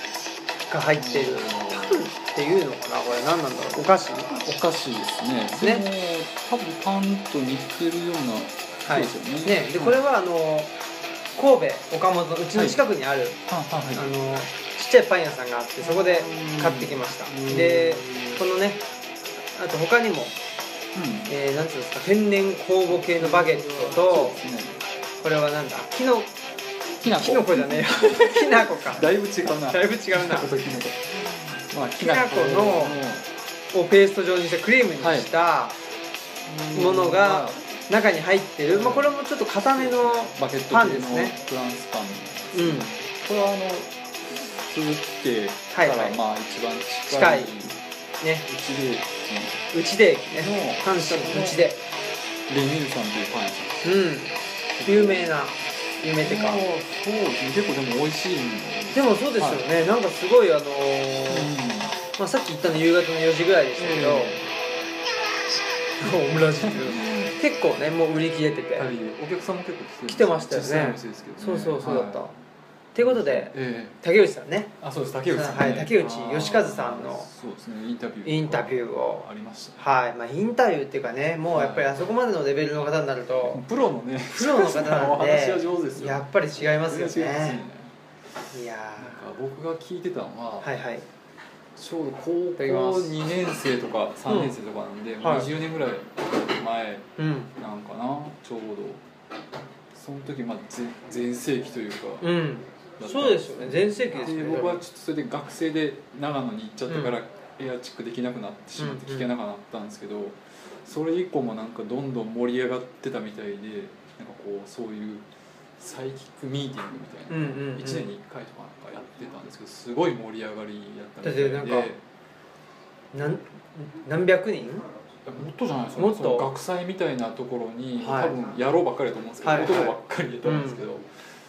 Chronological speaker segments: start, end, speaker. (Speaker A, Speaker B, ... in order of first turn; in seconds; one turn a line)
Speaker A: 0.7-4.3
Speaker B: 0.9-2.0
Speaker B: 3.8-10.0
Speaker A: 5.5-5.8
Speaker A: 8.9-10.7
Speaker A: 11.3-13.4
Speaker B: 12.5-12.8
Speaker B: 13.4-14.1
Speaker A: 13.9-18.8
Speaker B: 15.8-18.4
Speaker A: 19.5-20.4
Speaker B: 20.9-21.3
Speaker A: 21.3-24.4
Speaker B: 22.9-24.8
Speaker A: 25.2-26.3
Speaker B: 27.0-33.3
Speaker A: 27.0-29.1
Speaker A: 29.7-30.5
Speaker A: 32.0-33.0
Speaker A: 33.7-35.8
Speaker B: 35.0-35.3
Speaker B: 36.4-37.6
Speaker A: 36.7-41.3
Speaker B: 38.7-39.1
Speaker B: 39.7-47.8
Speaker A: 42.5-42.9
Speaker A: 45.7-46.2
Speaker A: 47.1-48.5
Speaker B: 48.5-49.7
Speaker A: 49.7-51.8
Speaker B: 50.4-51.7
Speaker B: 52.5-54.0
Speaker A: 53.8-56.6
Speaker B: 54.7-55.3
Speaker B: 56.2-59.8
Speaker A: 58.9-61.5
Speaker B: 61.3-62.0
Speaker A: 62.1-64.3
Speaker B: 63.8-64.5
Speaker A: 66.0-68.9
Speaker B: 66.6-67.3
Speaker B: 68.8-72.3
Speaker A: 70.1-72.3
Speaker A: 72.9-74.7
Speaker B: 73.0-74.0
Speaker B: 74.8-79.8
Speaker A: 75.3-77.3
Speaker A: 78.2-79.2
Speaker A: 79.8-83.6
Speaker B: 81.5-82.0
Speaker B: 83.5-87.9
Speaker A: 84.3-87.6
Speaker A: 88.5-89.2
Speaker B: 89.0-90.7
Speaker A: 90.6-91.0
Speaker B: 91.8-99.0
Speaker A: 92.6-93.2
Speaker A: 94.3-94.5
Speaker A: 95.2-95.5
Speaker A: 97.2-97.5
Speaker B: 99.9-102.4
Speaker A: 102.2-104.8
Speaker B: 103.0-115.2
Speaker A: 106.9-107.2
Speaker A: 108.8-109.3
Speaker B: 115.8-122.0
Speaker A: 117.3-118.1
Speaker A: 121.2-121.9
Speaker A: 123.1-124.9
Speaker B: 125.2-131.1
Speaker A: 126.0-126.5
Speaker A: 128.0-128.3
Speaker A: 129.4-130.8